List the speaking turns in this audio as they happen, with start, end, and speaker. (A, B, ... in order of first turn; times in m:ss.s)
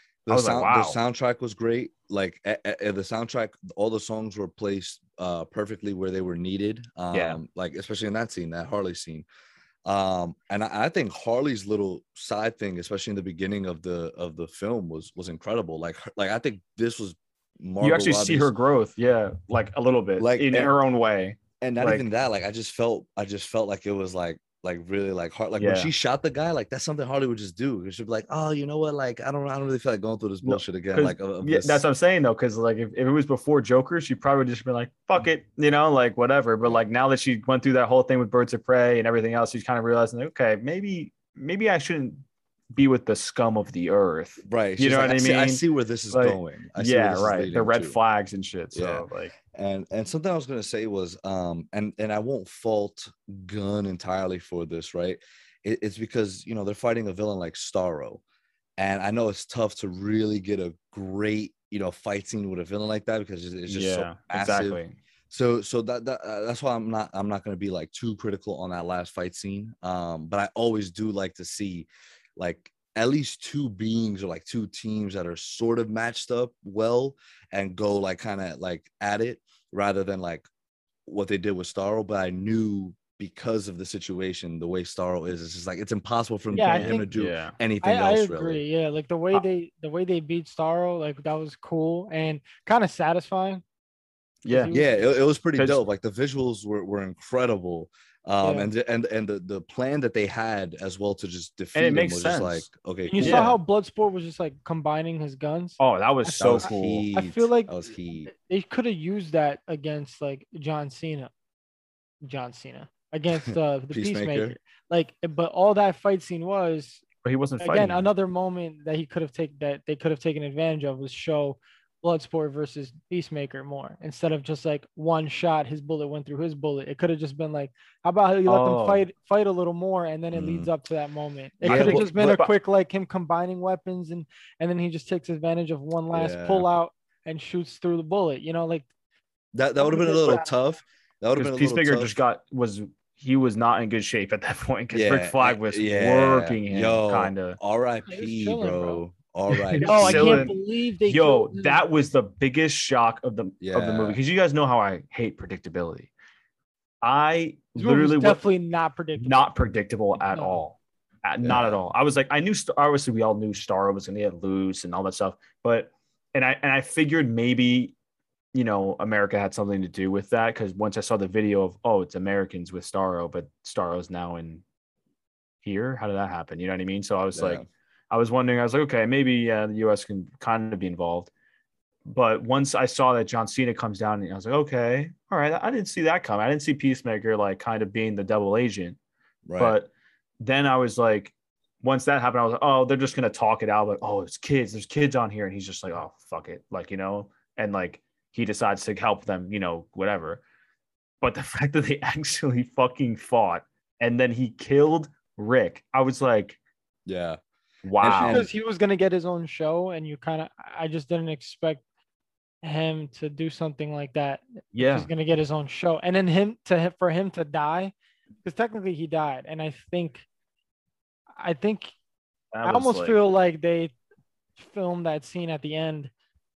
0:00.2-0:09.2 A
0:00.3-0:01.0 B
0:07.1-0:07.4 B
0:09.8-0:18.5 A
0:17.8-0:22.0 B
0:20.2-0:20.8 A
0:21.6-0:31.8 A
0:25.6-0:25.9 B
0:30.4-0:42.2 B
0:42.7-0:49.3 B
0:44.4-0:48.0 A
0:48.7-0:58.2 A
0:58.8-1:04.8 A
1:03.7-1:05.0 B
1:05.3-1:20.5 A
1:21.0-1:28.6 A
1:26.5-1:27.1 C
1:26.7-1:27.6 B
1:27.8-1:33.6 C
1:34.4-1:34.8 B
1:34.5-1:35.2 C
1:34.7-1:43.5 A
1:35.5-1:35.8 B
1:38.4-1:38.7 C
1:41.7-1:43.6 B
1:43.1-1:47.7 C
1:45.8-1:47.0 B
1:46.4-1:48.3 A
1:48.3-1:51.3 C
1:52.2-1:57.0 C
1:53.5-1:54.6 A
1:57.2-1:58.1 B
1:57.6-2:18.8 C
2:08.5-2:09.0 B
2:10.3-2:10.7 A
2:11.6-2:12.5 B
2:11.6-2:12.3 A
2:16.1-2:16.7 A
2:19.5-2:22.1 A
2:19.8-2:20.5 C
2:21.3-2:27.6 B
2:24.9-2:30.5 A
2:28.1-2:29.0 C
2:29.5-2:36.1 B
2:29.8-2:31.8 C
2:33.6-2:34.2 A
2:37.0-2:38.4 B
2:37.8-2:39.5 C
2:39.2-2:47.9 B
2:41.4-2:41.8 A
2:48.5-2:54.6 B
2:55.6-3:01.3 B
2:57.3-2:57.6 A
3:02.1-3:09.0 B
3:09.4-3:09.7 A
3:09.6-3:09.9 B
3:10.4-3:20.4 B
3:21.2-3:26.6 B
3:27.0-3:28.5 A
3:27.9-3:28.4 B
3:28.1-3:31.8 C
3:32.6-3:37.9 C
3:34.7-3:35.1 B
3:38.4-3:40.2 C
3:41.4-3:41.9 C
3:42.5-3:43.2 B
3:42.6-3:43.9 C
3:44.6-3:46.1 C